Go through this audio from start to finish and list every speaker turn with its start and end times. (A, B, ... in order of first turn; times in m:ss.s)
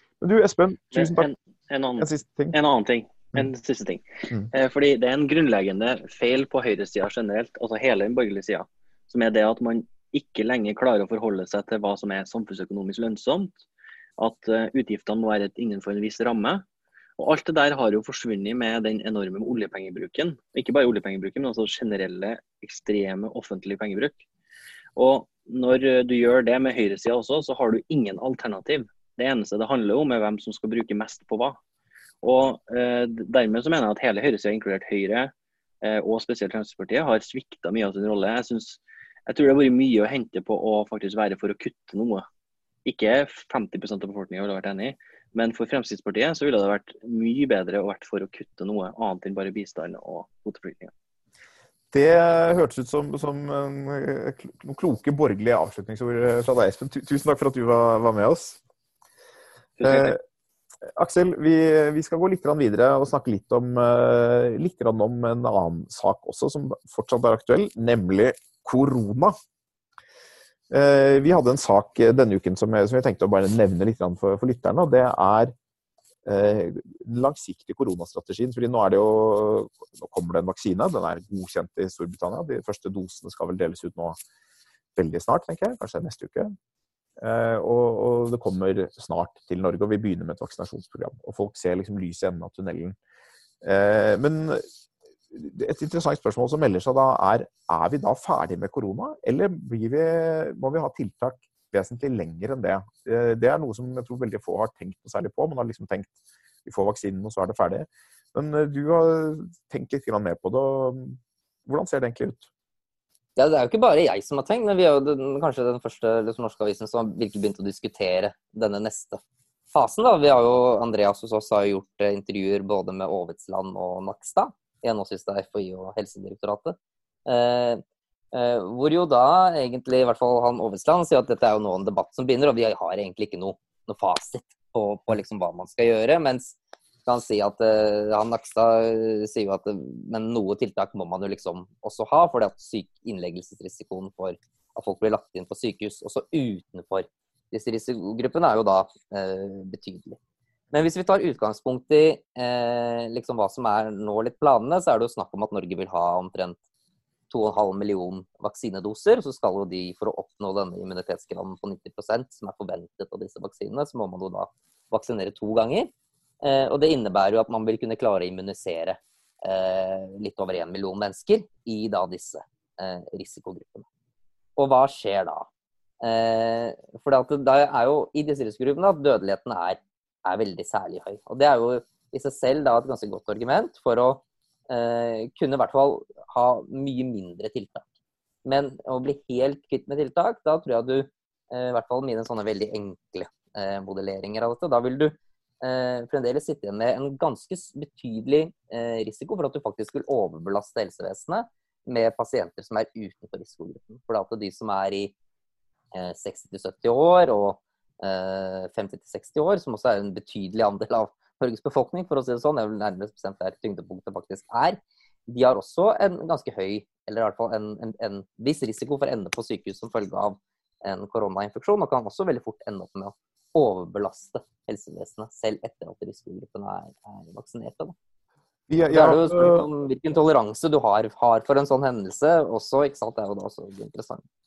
0:00.2-0:01.3 A
0:00.9-0:13.6 B
0:02.0-0:02.6 A
0:14.2-0:16.6 B
0:17.2-0:24.2 B
0:25.0-0:31.6 B
0:32.2-0:42.2 B
0:42.8-0:50.9 B
0:51.9-0:58.6 A
0:59.8-1:00.2 B
0:59.8-1:00.2 A
1:01.0-1:09.4 A
1:10.7-1:15.5 A
1:16.2-1:24.2 A
1:25.0-1:26.5 A
1:27.2-1:33.0 A
1:33.6-1:34.6 A
1:35.3-1:52.4 A
1:53.4-1:59.2 C
1:59.7-2:30.2 C
2:30.7-2:36.6 C
2:37.3-2:53.8 C
2:54.6-2:55.5 C
2:56.0-3:07.8 C
3:08.4-3:25.1 C
3:25.9-3:47.9 C
3:48.7-3:49.6 A
3:48.9-3:54.2 C